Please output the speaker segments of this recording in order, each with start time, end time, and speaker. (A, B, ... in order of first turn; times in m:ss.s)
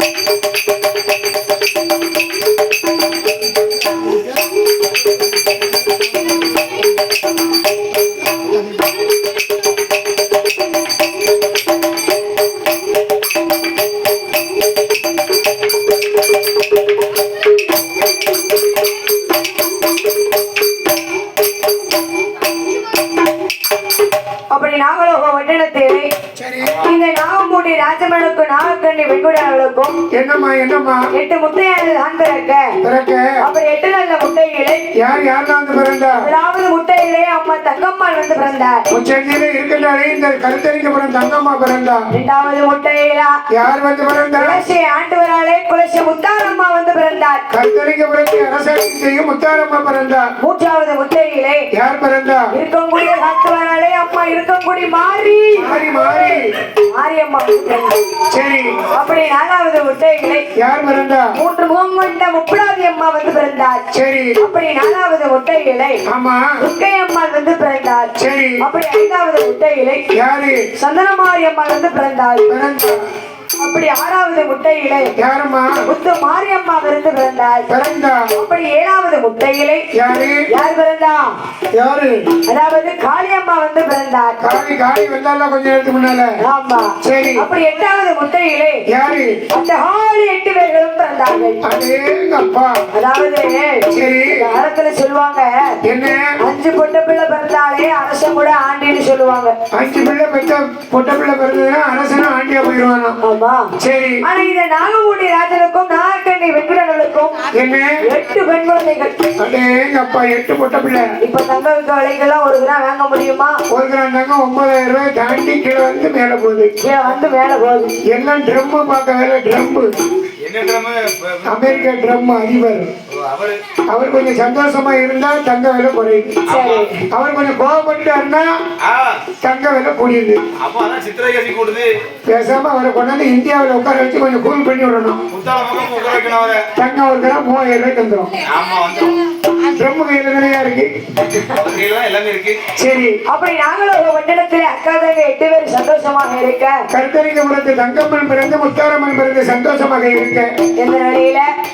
0:24.5-0:26.1 A
0:26.4-0:26.9 B
0:26.8-0:30.0 A
0:30.1-0:31.1 B
0:31.1-0:32.8 A
0:32.8-0:33.3 B
0:33.4-0:34.8 A
0:35.0-0:36.3 B
0:36.1-0:38.8 A
0:38.9-0:42.0 B
0:42.1-0:43.4 A
0:43.5-0:44.6 B
0:44.4-0:47.4 A
0:47.5-0:50.3 B
0:50.4-0:51.7 A
0:51.7-0:52.5 B
0:52.5-0:58.2 A
0:55.6-0:56.5 B
0:58.3-0:58.8 B
0:58.9-1:00.4 A
1:00.6-1:01.3 B
1:01.3-1:03.8 A
1:03.9-1:04.4 B
1:04.4-1:06.0 A
1:06.1-1:06.5 B
1:06.6-1:10.0 A
1:08.2-1:08.6 B
1:10.1-1:10.6 B
1:10.8-1:12.5 A
1:12.5-1:13.0 B
1:13.6-1:15.1 A
1:15.2-1:15.8 B
1:15.9-1:17.7 A
1:17.7-1:18.3 B
1:18.3-1:19.9 A
1:19.9-1:20.4 B
1:20.5-1:21.3 A
1:21.7-1:22.2 B
1:22.5-1:24.4 A
1:24.4-1:26.3 B
1:26.4-1:28.8 A
1:27.0-1:27.5 B
1:28.9-1:29.4 B
1:29.5-1:31.6 A
1:31.6-1:32.8 B
1:32.9-1:35.5 A
1:33.9-1:34.5 B
1:35.8-1:36.3 B
1:36.4-1:39.5 A
1:39.7-1:43.2 B
1:43.2-1:43.7 A
1:43.8-1:44.2 B
1:44.2-1:47.5 A
1:47.5-1:48.0 B
1:48.0-1:49.1 A
1:49.4-1:51.0 B
1:51.2-1:53.6 A
1:53.7-1:56.7 B
1:56.8-1:57.9 A
1:58.1-1:59.9 B
2:00.4-2:01.8 C
2:01.5-2:02.9 B
2:03.1-2:03.6 C
2:03.9-2:06.4 B
2:06.5-2:06.9 C
2:06.5-2:07.0 A
2:07.1-2:08.5 B
2:08.8-2:09.2 C
2:09.4-2:10.4 B
2:10.6-2:11.9 C
2:12.3-2:15.2 B
2:15.3-2:16.7 C
2:16.8-2:18.4 B
2:18.4-2:19.2 C
2:19.6-2:20.9 B
2:21.4-2:22.6 C
2:22.8-2:23.2 B
2:23.3-2:26.8 A
2:26.9-2:30.5 B
2:30.8-2:31.5 A